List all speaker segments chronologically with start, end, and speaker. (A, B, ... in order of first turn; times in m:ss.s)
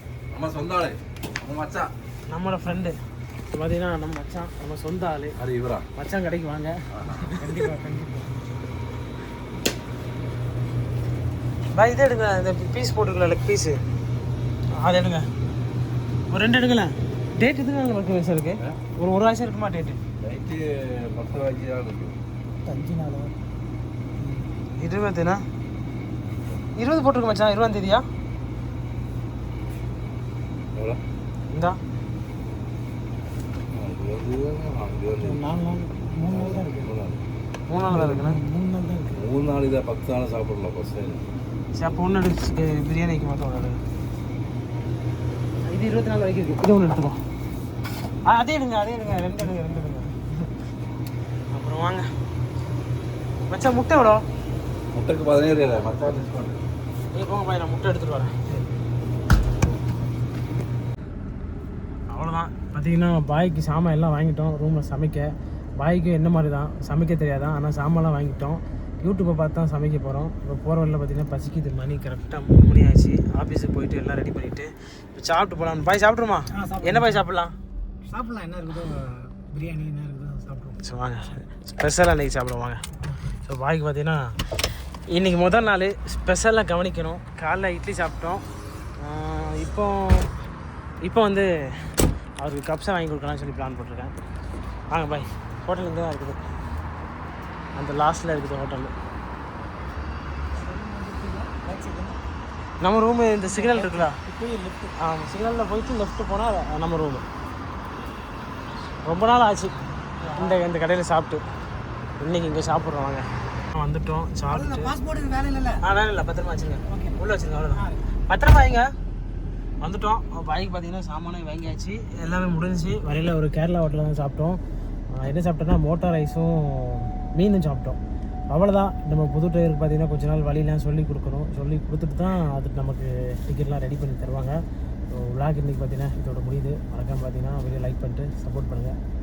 0:00.3-0:01.9 A
0:02.3-0:03.0 B
0:03.5-0:05.4 B
0:05.4-0:05.8 A
0:05.9-0:07.6 B
0:07.0-0:07.3 A
0:07.4-0:08.4 C
0:11.7-0:13.8 B
0:14.8-0:15.3 B
0:16.3-0:20.0 B
0:20.2-0:22.2 A
0:22.6-0:23.4 C
0:24.8-0:25.4 B
0:26.7-0:28.0 B
0:30.7-0:31.0 A
0:31.5-0:31.8 B
0:33.7-0:35.4 A
0:35.2-0:36.9 C
0:36.3-0:37.2 A
0:37.7-0:38.4 B
0:37.9-0:39.2 C
0:39.1-0:41.2 A
0:41.7-0:43.8 B
0:45.6-0:47.2 B
0:48.2-0:50.3 B
0:51.5-0:52.1 B
0:53.5-0:54.2 B
0:54.9-0:56.6 A
0:57.1-0:58.6 B
1:02.1-1:17.6 B
1:16.5-1:17.2 C
1:18.0-1:20.8 C
1:20.8-1:22.8 B
1:23.4-1:24.4 B
1:25.1-1:28.5 B
1:29.0-1:30.4 B
1:31.0-1:34.1 B
1:34.9-1:36.4 B
1:37.7-1:38.9 B
1:40.5-1:42.2 C
1:42.8-1:44.2 B
1:43.4-1:44.9 C
1:45.0-1:47.2 B
1:49.0-1:49.7 B
1:50.2-1:50.6 C
1:50.3-1:51.4 B
1:52.2-1:54.9 B
1:54.5-1:55.8 C
1:55.8-1:58.9 B
1:56.8-1:58.1 C
1:59.8-2:04.6 B
2:05.1-2:19.0 B